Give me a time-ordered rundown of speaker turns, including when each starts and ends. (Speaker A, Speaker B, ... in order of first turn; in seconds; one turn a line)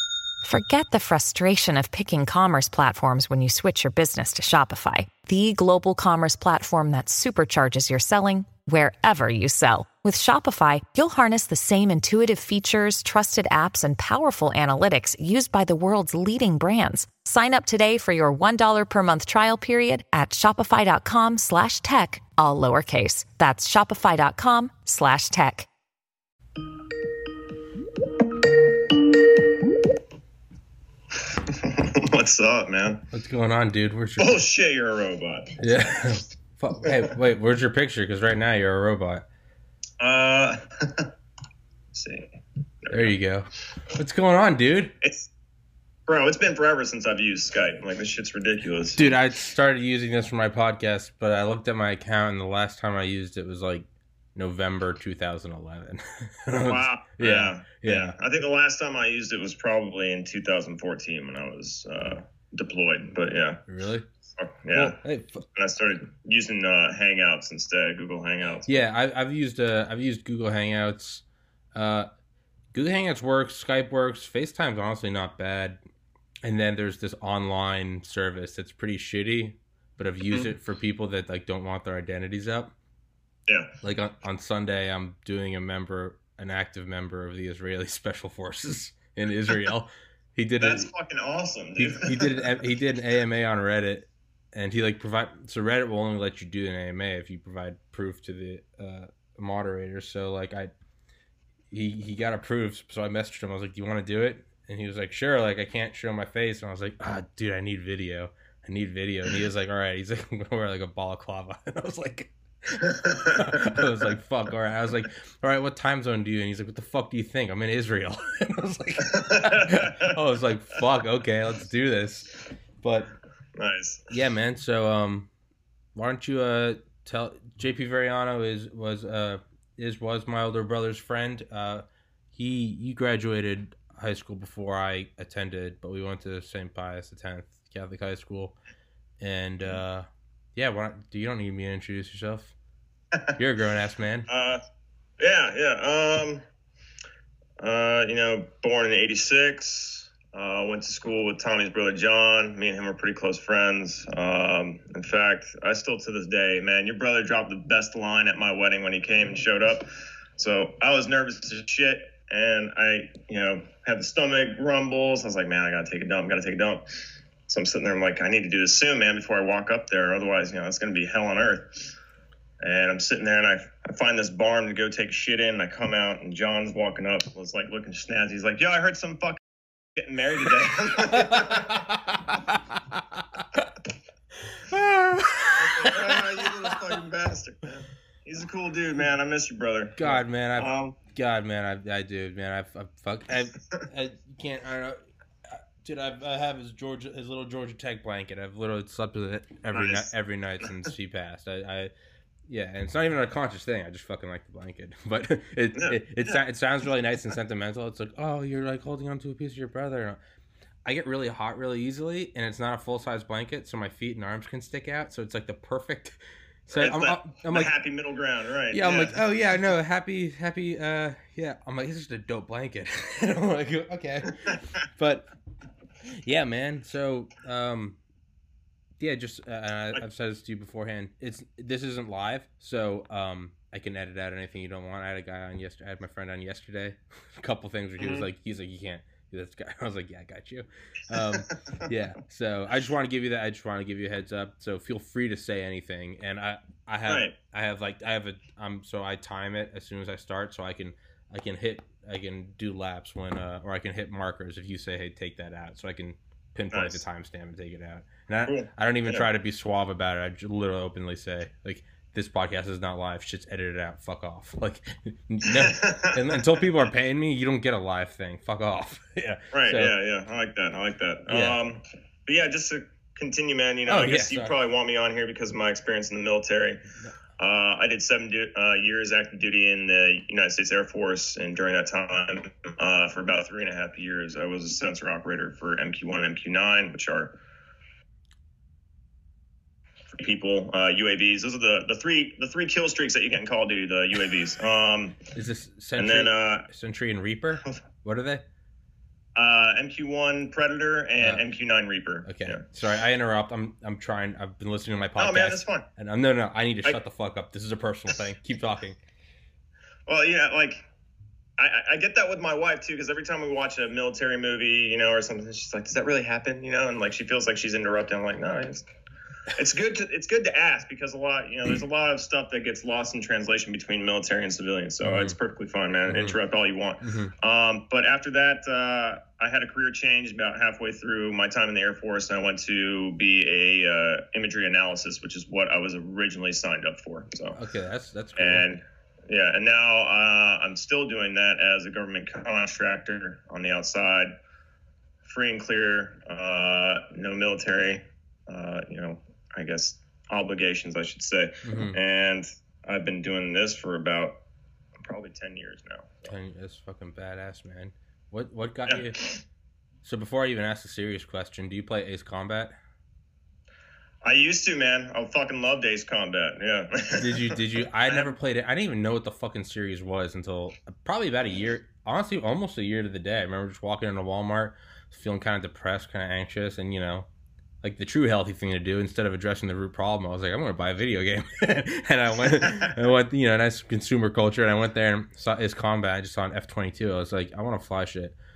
Speaker A: 0.4-25.7
Speaker B: 31.2-33.0
Speaker C: 33.1-34.4
Speaker B: 34.2-35.6
Speaker C: 35.6-39.3
Speaker B: 40.0-41.1
Speaker B: 41.9-43.1
Speaker C: 42.9-44.9
Speaker B: 45.0-45.3
Speaker B: 46.1-49.1
Speaker C: 49.0-58.1
Speaker B: 56.5-63.6
Speaker C: 63.7-64.1
Speaker B: 64.4-65.0
Speaker C: 64.7-65.4
Speaker B: 65.5-68.8
Speaker C: 68.7-72.1
Speaker C: 72.7-75.8
Speaker C: 76.4-82.7
Speaker C: 83.8-90.9
Speaker B: 90.6-92.6
Speaker C: 91.8-100.7
Speaker C: 101.7-123.1
Speaker B: 113.0-113.7
Speaker B: 119.0-120.2
Speaker B: 123.6-124.1
Speaker C: 124.1-125.3
Speaker C: 125.9-138.6
Speaker C: 139.2-142.5
Speaker C: 143.4-144.3
Speaker B: 144.3-144.6
Speaker B: 145.2-146.4
Speaker B: 147.6-166.8
Speaker B: 167.5-171.9
Speaker B: 172.6-181.9
Speaker C: 181.1-183.6
Speaker C: 184.4-186.7
Speaker B: 185.6-191.0
Speaker C: 190.0-201.9
Speaker B: 199.7-200.1
Speaker C: 202.5-210.2
Speaker B: 205.7-206.4
Speaker C: 210.8-217.7
Speaker B: 216.8-219.2
Speaker C: 218.7-225.3
Speaker C: 226.1-228.0
Speaker C: 229.0-269.9
Speaker B: 238.0-238.2
Speaker B: 247.1-247.3
Speaker B: 256.7-257.0
Speaker B: 258.4-259.3
Speaker B: 265.5-266.4
Speaker B: 269.5-276.8
Speaker C: 271.3-271.6
Speaker C: 273.9-274.6
Speaker B: 277.4-287.3
Speaker B: 290.1-295.2
Speaker C: 295.3-298.4
Speaker B: 296.0-296.7
Speaker B: 299.4-302.6
Speaker C: 301.2-301.4
Speaker C: 302.2-309.0
Speaker B: 305.2-305.9
Speaker B: 310.1-310.9
Speaker B: 311.6-318.8
Speaker B: 319.5-337.6
Speaker C: 325.0-325.3
Speaker C: 326.1-326.4
Speaker C: 327.0-327.3
Speaker C: 337.5-338.6
Speaker B: 338.4-344.3
Speaker B: 345.2-354.4
Speaker C: 351.6-352.0
Speaker B: 355.0-356.3
Speaker C: 356.2-359.2
Speaker B: 358.9-359.4
Speaker C: 360.0-362.7
Speaker B: 364.2-367.5
Speaker C: 367.2-377.3
Speaker B: 368.0-368.3
Speaker C: 377.8-388.4
Speaker B: 382.6-382.9